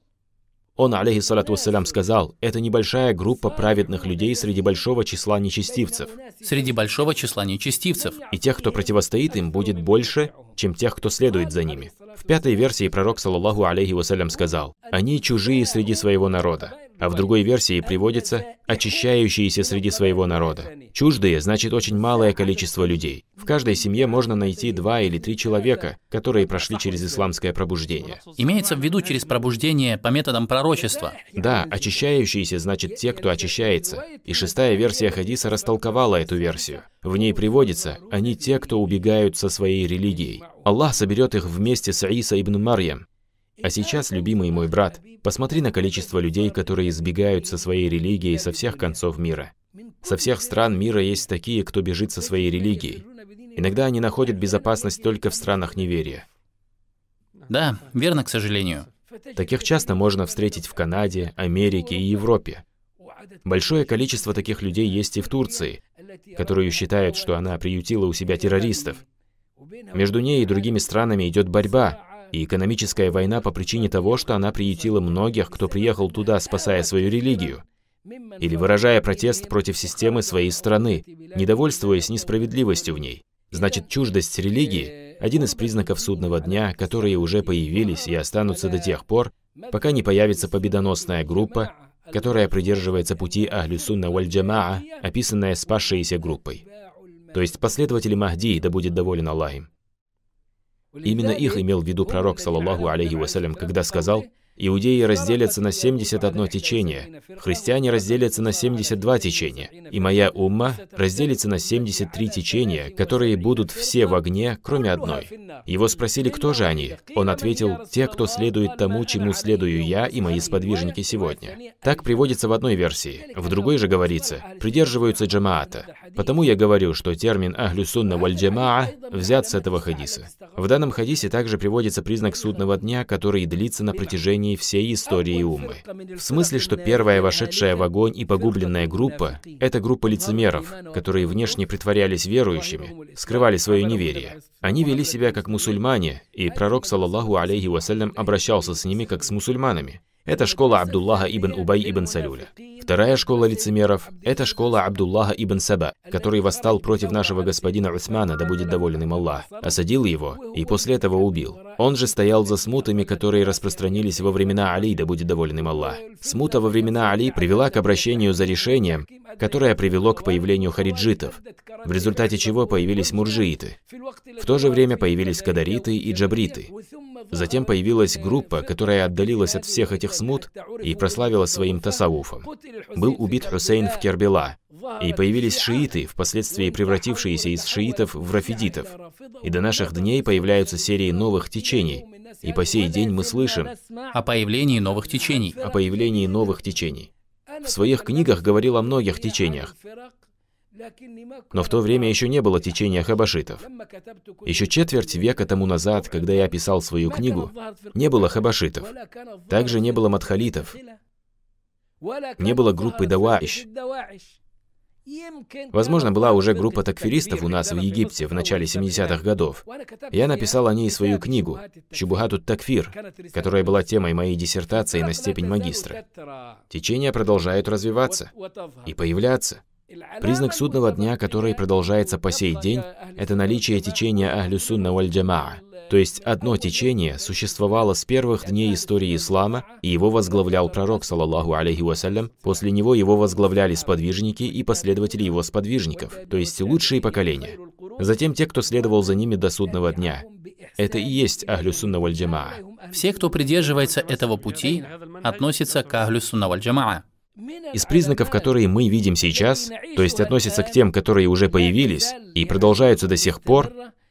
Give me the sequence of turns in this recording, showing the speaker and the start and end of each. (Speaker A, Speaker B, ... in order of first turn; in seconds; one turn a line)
Speaker A: 0.8-6.2
Speaker B: 6.4-8.2
Speaker A: 8.3-28.2
Speaker B: 28.4-31.2
Speaker A: 31.3-43.0
Speaker A: 43.6-49.5
Speaker A: 50.0-53.0
Speaker A: 53.5-56.2
Speaker B: 57.5-58.9
Speaker A: 59.4-62.6
Speaker A: 63.4-65.8
Speaker A: 66.3-69.0
Speaker A: 69.9-77.6
Speaker A: 78.4-96.6
Speaker A: 97.3-99.7
Speaker A: 101.0-173.8
Speaker A: 174.4-176.7
Speaker A: 177.3-193.8
Speaker B: 194.1-195.6
Speaker A: 195.6-197.1
Speaker A: 197.6-199.7
Speaker A: 201.5-203.7
Speaker A: 204.4-208.9
Speaker A: 209.5-210.8
Speaker A: 212.4-213.7
Speaker A: 215.7-226.0
Speaker A: 226.7-228.3
Speaker A: 228.8-229.6
Speaker A: 230.2-250.2
Speaker A: 250.8-252.6
Speaker B: 252.9-257.0
Speaker A: 257.7-263.7